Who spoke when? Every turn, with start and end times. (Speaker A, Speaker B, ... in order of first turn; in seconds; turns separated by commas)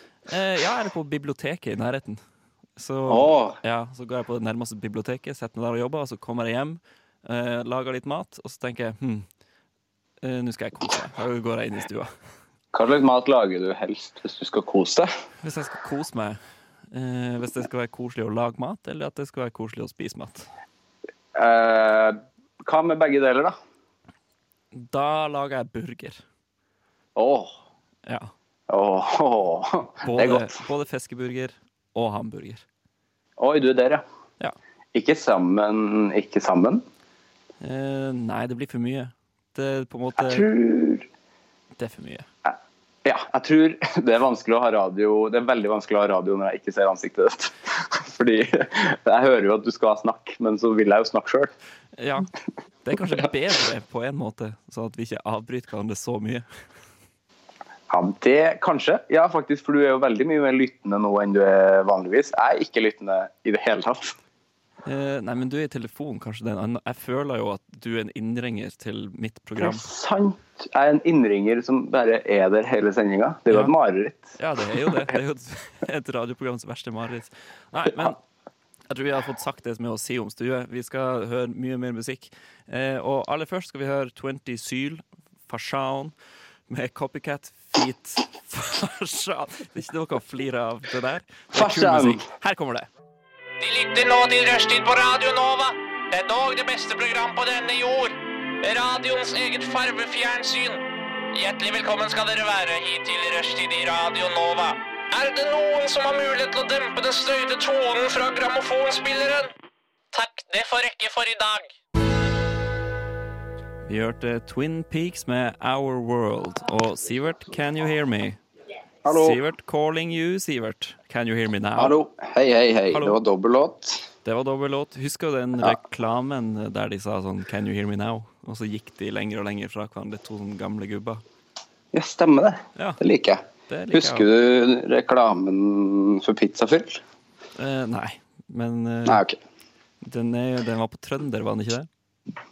Speaker A: 0.3-2.2, Speaker A: 2.8-9.2, Speaker B: 3.1-3.6, Speaker A: 10.2-12.1, Speaker B: 12.7-15.1, Speaker A: 15.4-16.4, Speaker A: 16.9-20.5, Speaker B: 21.3-23.5, Speaker A: 24.7-26.2, Speaker B: 27.1-27.5, Speaker A: 28.1-28.3, Speaker B: 28.7-30.6, Speaker A: 30.0-32.6, Speaker B: 33.4-34.0, Speaker B: 34.9-36.8, Speaker A: 37.6-40.5, Speaker B: 40.2-41.0, Speaker A: 41.8-42.2, Speaker B: 42.5-51.5, Speaker A: 52.0-52.3, Speaker A: 52.8-56.4, Speaker B: 57.9-64.2, Speaker A: 64.8-69.9, Speaker B: 69.6-74.3, Speaker A: 74.4-78.2, Speaker B: 74.8-75.1, Speaker A: 78.9-86.1, Speaker A: 86.7-92.9, Speaker B: 91.5-92.2, Speaker C: 93.6-100.8, Speaker C: 101.3-109.5, Speaker C: 110.1-111.7, Speaker A: 113.8-118.4, Speaker B: 119.0-119.4, Speaker A: 119.1-121.9, Speaker B: 121.8-124.1, Speaker A: 122.9-123.2, Speaker A: 124.2-131.2, Speaker B: 131.9-137.0, Speaker A: 133.7-134.3, Speaker A: 137.6-139.2, Speaker B: 139.1-139.4, Speaker A: 140.0-141.9